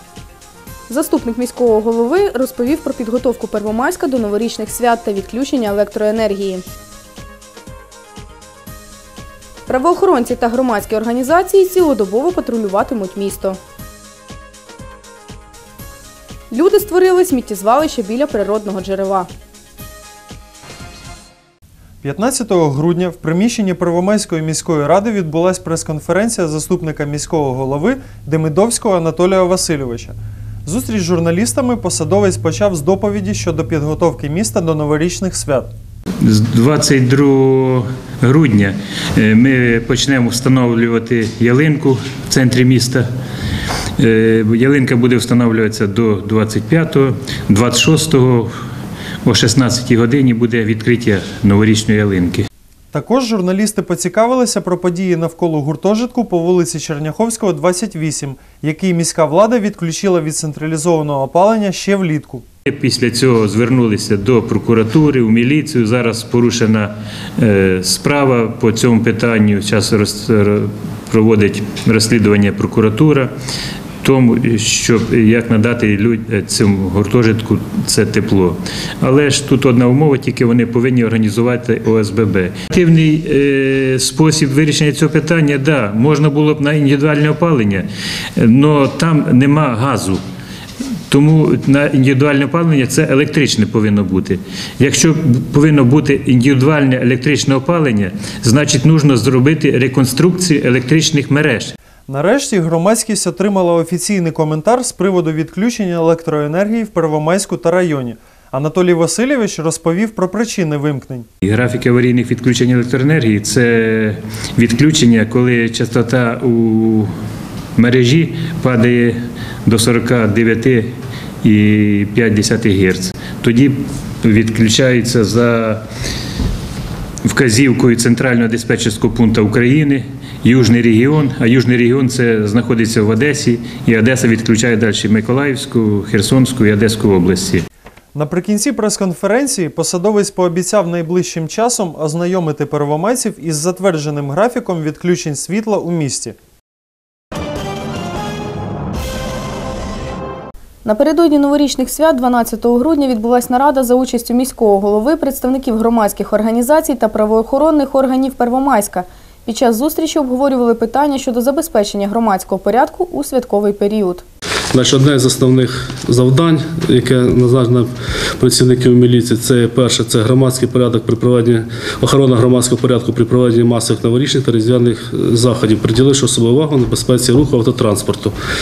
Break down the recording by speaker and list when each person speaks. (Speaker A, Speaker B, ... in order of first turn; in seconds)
Speaker A: 0.9-6.6, 9.7-13.6, 16.5-19.3, 150.8-164.2
Speaker B: 22.0-35.7, 52.9-62.4, 102.1-111.3, 138.1-146.4
Speaker C: 36.2-43.0, 44.0-48.5, 49.2-52.5, 62.7-73.3, 74.0-90.2, 91.1-101.7, 111.4-117.1, 117.8-125.8, 127.2-137.6
Speaker D: 164.7-167.9, 168.4-178.3